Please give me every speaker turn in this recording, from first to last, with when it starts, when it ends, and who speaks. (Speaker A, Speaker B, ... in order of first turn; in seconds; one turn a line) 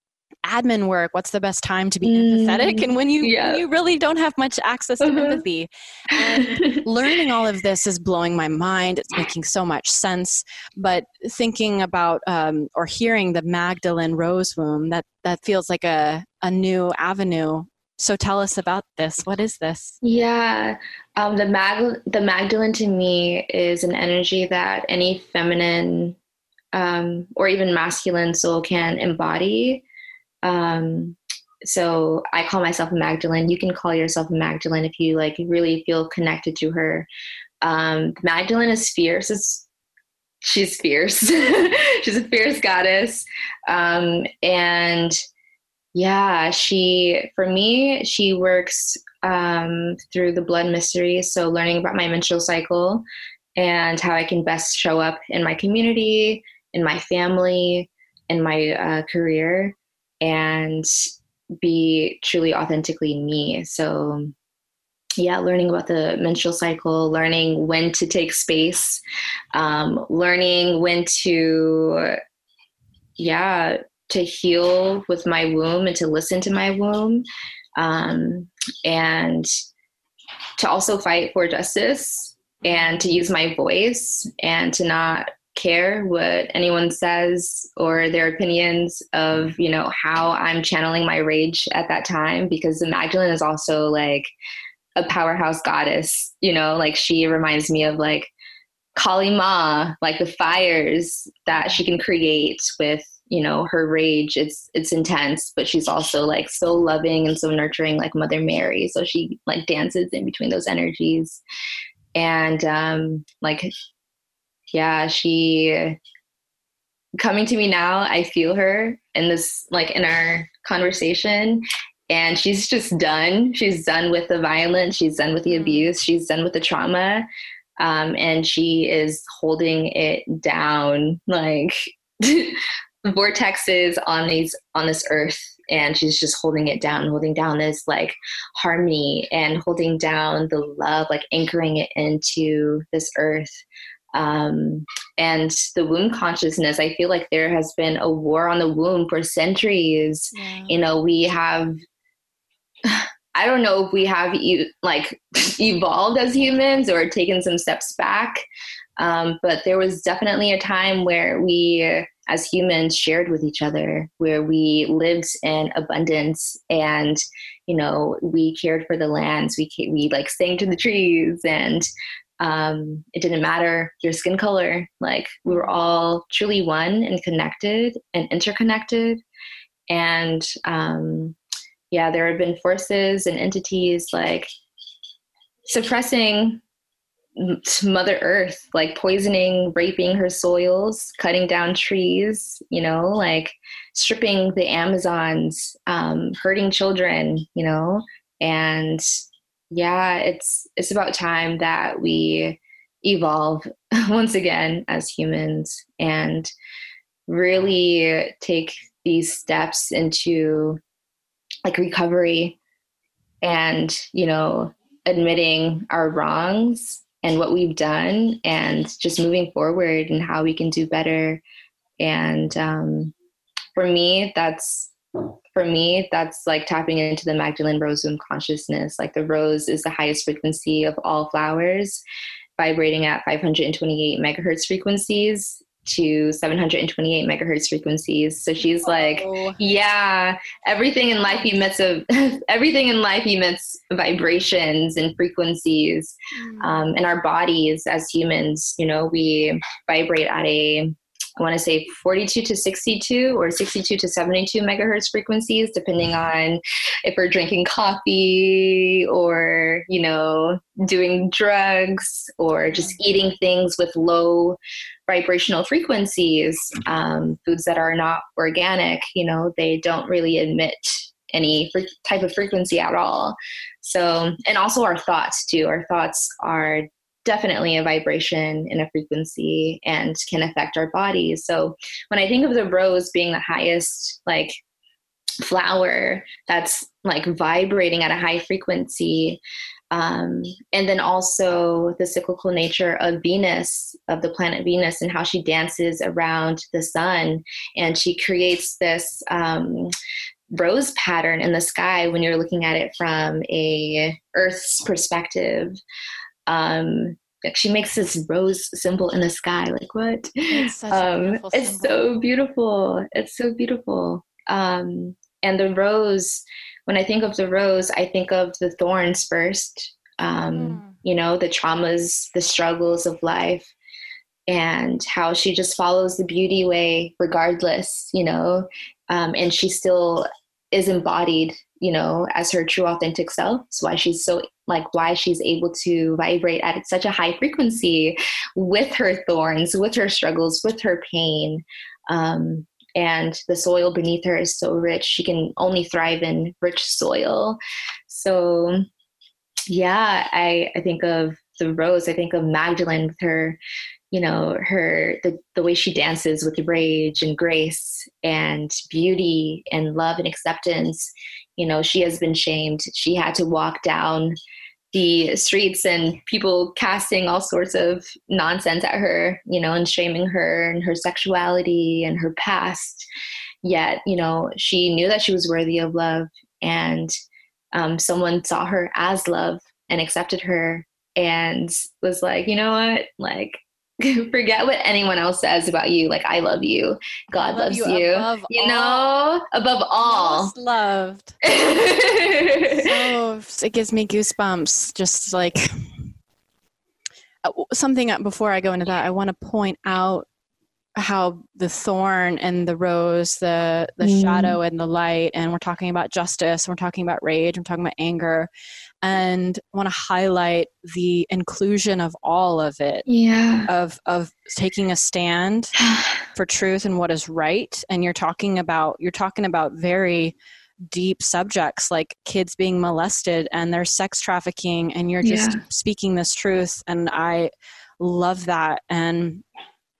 Speaker A: 0.4-20.0
Speaker B: 2.0-3.6
Speaker B: 5.0-5.4
Speaker B: 6.3-6.8
Speaker B: 20.0-26.2
Speaker B: 26.7-29.8
Speaker B: 30.4-37.1
Speaker B: 37.6-39.6
Speaker B: 40.4-45.2
Speaker B: 45.9-53.0
Speaker B: 53.5-60.9
Speaker B: 61.6-64.3
Speaker B: 65.2-69.0
Speaker B: 69.5-72.2
Speaker B: 73.2-77.2
Speaker B: 77.8-79.5
Speaker B: 80.6-94.3
Speaker A: 82.6-83.2
Speaker B: 95.0-98.3
Speaker B: 99.0-111.4
Speaker A: 101.5-101.8
Speaker B: 112.1-113.7
Speaker B: 114.7-116.0
Speaker B: 117.2-127.3
Speaker A: 125.5-125.9
Speaker B: 127.8-143.6
Speaker B: 144.1-151.8
Speaker A: 150.3-150.8
Speaker B: 152.8-158.4
Speaker B: 159.0-171.9
Speaker B: 172.4-179.2
Speaker A: 175.4-175.8
Speaker B: 179.9-181.4
Speaker B: 181.9-184.5
Speaker B: 185.6-186.6
Speaker B: 187.3-199.0
Speaker B: 199.7-206.5
Speaker B: 207.3-210.8
Speaker B: 211.6-212.6
Speaker B: 213.4-221.4
Speaker B: 222.0-223.1
Speaker B: 223.7-224.9
Speaker B: 225.5-232.0
Speaker B: 232.6-284.5
Speaker A: 238.6-239.6
Speaker A: 246.3-246.9
Speaker A: 262.7-263.0
Speaker B: 285.4-299.9
Speaker B: 300.5-305.8
Speaker B: 306.4-323.7
Speaker A: 310.5-312.2
Speaker A: 320.5-321.0
Speaker B: 324.5-348.8
Speaker B: 349.7-353.6
Speaker B: 354.1-364.4
Speaker B: 364.9-373.1
Speaker B: 373.6-377.1
Speaker B: 377.7-390.5
Speaker A: 387.3-389.1
Speaker A: 390.0-391.4
Speaker B: 391.4-392.9
Speaker A: 392.7-396.1
Speaker A: 397.4-400.3
Speaker A: 401.0-408.5
Speaker B: 404.0-404.6
Speaker A: 409.0-413.1
Speaker B: 413.1-413.7
Speaker A: 413.7-415.7
Speaker B: 415.8-416.2
Speaker A: 416.3-420.3
Speaker A: 420.9-429.4
Speaker B: 425.2-425.6